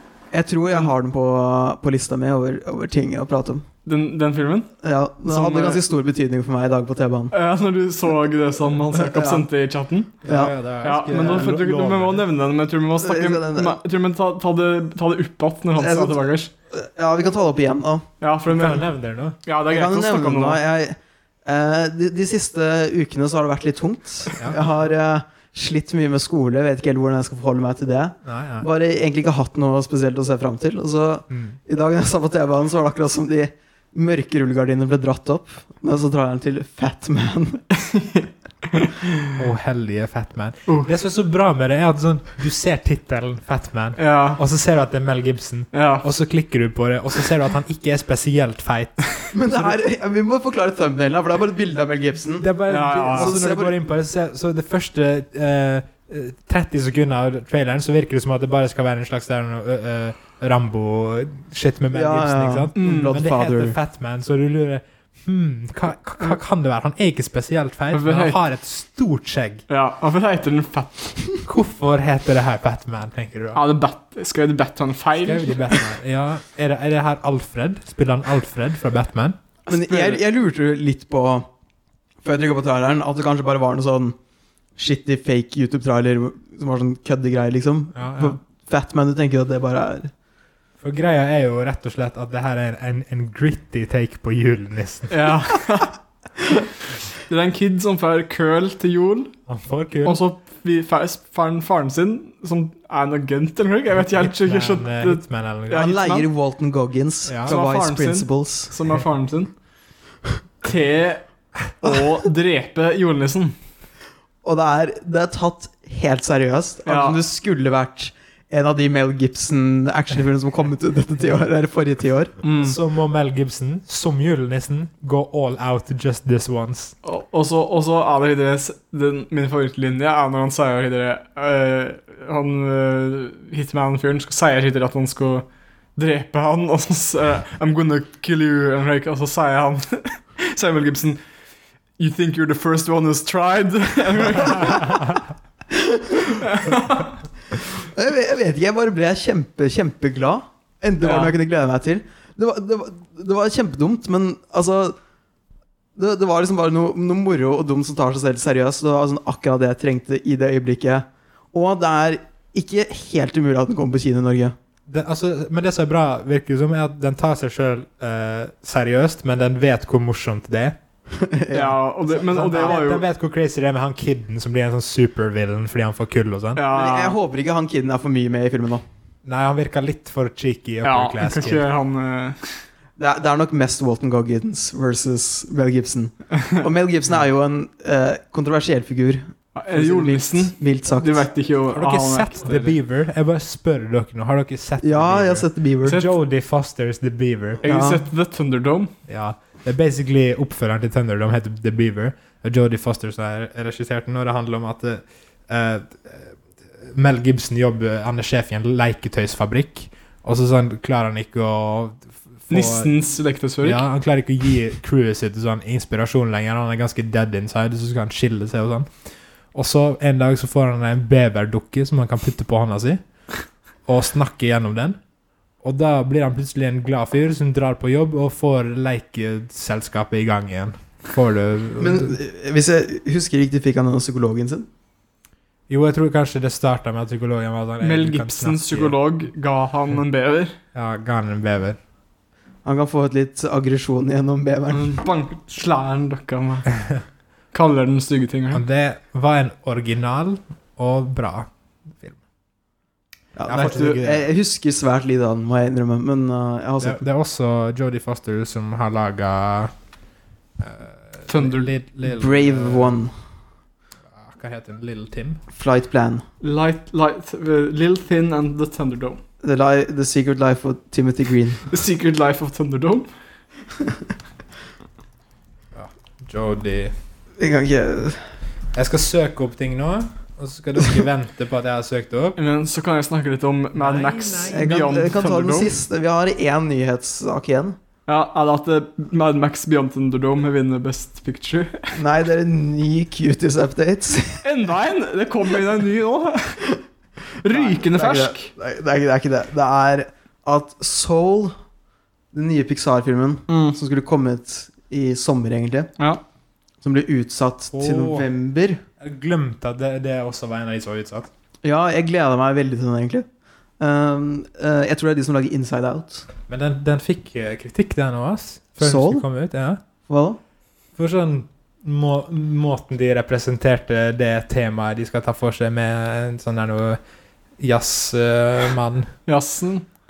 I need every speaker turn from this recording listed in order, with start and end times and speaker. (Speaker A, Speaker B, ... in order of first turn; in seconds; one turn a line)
Speaker A: 0.3-3.6
Speaker B: 3.8-4.7
Speaker A: 4.8-7.3
Speaker B: 5.2-5.8
Speaker B: 7.3-10.2
Speaker A: 8.9-9.4
Speaker A: 10.2-10.5
Speaker C: 10.2-12.2
Speaker B: 10.8-16.5
Speaker A: 13.0-13.8
Speaker A: 15.8-18.1
Speaker B: 18.2-18.8
Speaker C: 18.5-19.4
Speaker B: 19.4-20.6
Speaker A: 19.7-37.6
Speaker C: 24.4-24.7
Speaker C: 28.2-28.7
Speaker C: 31.3-31.6
Speaker B: 37.8-39.0
Speaker C: 39.4-49.7
Speaker B: 44.0-44.4
Speaker B: 45.7-46.1
Speaker A: 49.3-52.5
Speaker C: 52.4-69.6
Speaker B: 52.7-53.4
Speaker A: 53.0-53.7
Speaker A: 61.9-63.8
Speaker B: 62.8-63.1
Speaker B: 67.9-68.4
Speaker B: 69.7-71.4
Speaker C: 71.4-73.6
Speaker B: 73.5-75.9
Speaker C: 75.2-79.4
Speaker A: 79.7-81.5
Speaker B: 79.7-80.2
Speaker A: 82.2-84.2
Speaker A: 84.8-90.1
Speaker C: 88.0-88.4
Speaker C: 90.8-95.3
Speaker B: 95.1-96.0
Speaker B: 97.3-99.3
Speaker C: 99.5-100.2
Speaker B: 100.0-106.3
Speaker C: 104.0-106.0
Speaker A: 105.7-108.7
Speaker C: 107.2-107.5
Speaker B: 107.5-109.5
Speaker B: 110.6-113.5
Speaker A: 114.4-122.4
Speaker B: 116.8-117.2
Speaker B: 122.4-122.8
Speaker C: 122.6-126.9
Speaker B: 127.0-141.2
Speaker B: 142.0-145.2
Speaker A: 145.7-146.4
Speaker B: 146.2-147.1
Speaker A: 147.7-154.9
Speaker B: 151.0-151.3
Speaker A: 155.9-164.5
Speaker C: 164.9-170.8
Speaker A: 171.1-172.8
Speaker B: 171.5-173.0
Speaker C: 172.3-176.6
Speaker B: 176.6-177.2
Speaker A: 176.7-178.8
Speaker C: 179.2-181.7
Speaker B: 180.8-182.6
Speaker A: 183.0-191.2
Speaker B: 189.5-192.8
Speaker C: 191.7-197.6
Speaker A: 194.8-196.0
Speaker B: 197.6-198.9
Speaker A: 197.6-198.0
Speaker C: 199.1-212.9
Speaker B: 212.5-213.8
Speaker C: 213.6-218.9
Speaker C: 219.5-223.0
Speaker C: 223.8-225.0
Speaker C: 225.6-232.2
Speaker A: 231.8-234.7
Speaker C: 235.7-238.9
Speaker B: 237.8-240.6
Speaker C: 240.7-241.8
Speaker A: 242.6-245.0
Speaker B: 244.7-246.8
Speaker B: 247.5-248.6
Speaker C: 248.5-252.2
Speaker A: 253.3-257.0
Speaker C: 253.5-254.2
Speaker C: 256.8-259.7
Speaker C: 260.6-263.0
Speaker B: 261.3-261.7
Speaker A: 262.0-263.1
Speaker C: 264.1-265.4
Speaker A: 265.5-266.2
Speaker B: 266.4-269.2
Speaker A: 269.4-271.6
Speaker B: 271.7-273.1
Speaker C: 275.7-276.9
Speaker A: 277.4-278.3
Speaker C: 278.7-282.4
Speaker B: 282.4-285.7
Speaker C: 283.8-284.8
Speaker A: 284.5-287.8
Speaker B: 288.1-292.0
Speaker A: 291.9-294.4
Speaker B: 294.4-296.6
Speaker B: 297.4-298.5
Speaker A: 297.4-301.5
Speaker A: 302.3-305.9
Speaker A: 306.8-308.8
Speaker C: 307.7-308.3
Speaker C: 309.0-311.3
Speaker A: 311.6-313.2
Speaker A: 313.8-316.3
Speaker C: 316.5-319.8
Speaker A: 318.8-319.2
Speaker A: 320.1-320.4
Speaker C: 320.9-327.0
Speaker C: 327.6-329.1
Speaker B: 329.3-329.9